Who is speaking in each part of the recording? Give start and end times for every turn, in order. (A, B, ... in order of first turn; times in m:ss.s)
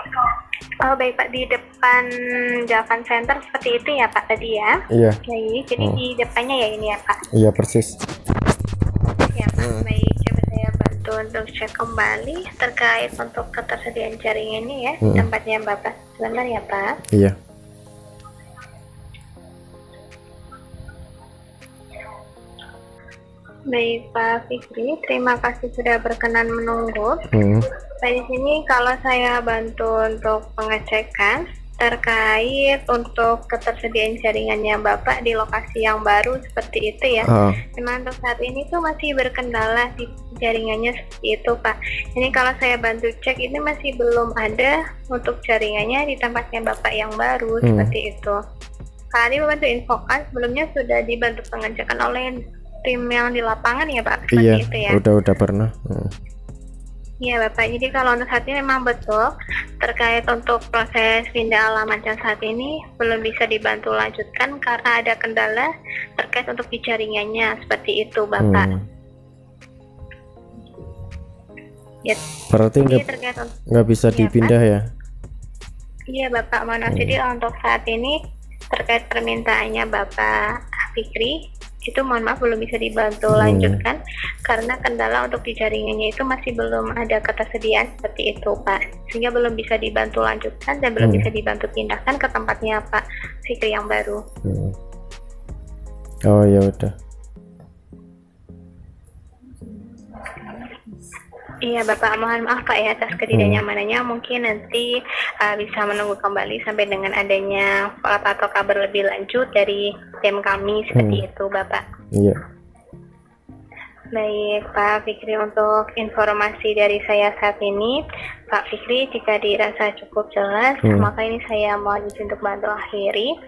0:00.8-0:02.0 A
0:02.7-0:04.7 A
0:04.9-0:05.2 B
0:05.3-0:07.2 A
0:07.3-0:08.0 B
0:09.2-0:16.8 A
0:09.6-0:09.8 B
0:15.0-0:15.3 B
0:23.7-0:27.2 A
0:27.3-0:27.6 B
0:28.0-0:48.4 A
0:37.2-0:37.6 B
0:47.6-0:47.9 B
0:49.1-0:52.3 A
0:52.8-0:55.0 A
0:54.3-0:56.1 B
0:57.2-0:59.3 A
0:59.8-1:08.7 A
1:08.4-1:08.8 B
1:12.5-1:13.1 B
1:12.8-1:13.5 A
1:13.7-1:14.8 B
1:14.1-1:14.5 A
1:16.1-1:18.1 A
1:16.9-1:17.2 B
1:18.7-1:20.3 A
1:20.9-1:34.2 A
1:23.3-1:23.8 B
1:31.0-1:31.3 B
1:34.4-1:34.7 B
1:36.3-1:36.9 B
1:41.6-1:44.9 A
1:43.3-1:43.6 B
1:45.4-1:51.8 A
1:50.9-1:51.2 B
1:54.1-2:03.3 A
2:00.8-2:01.1 B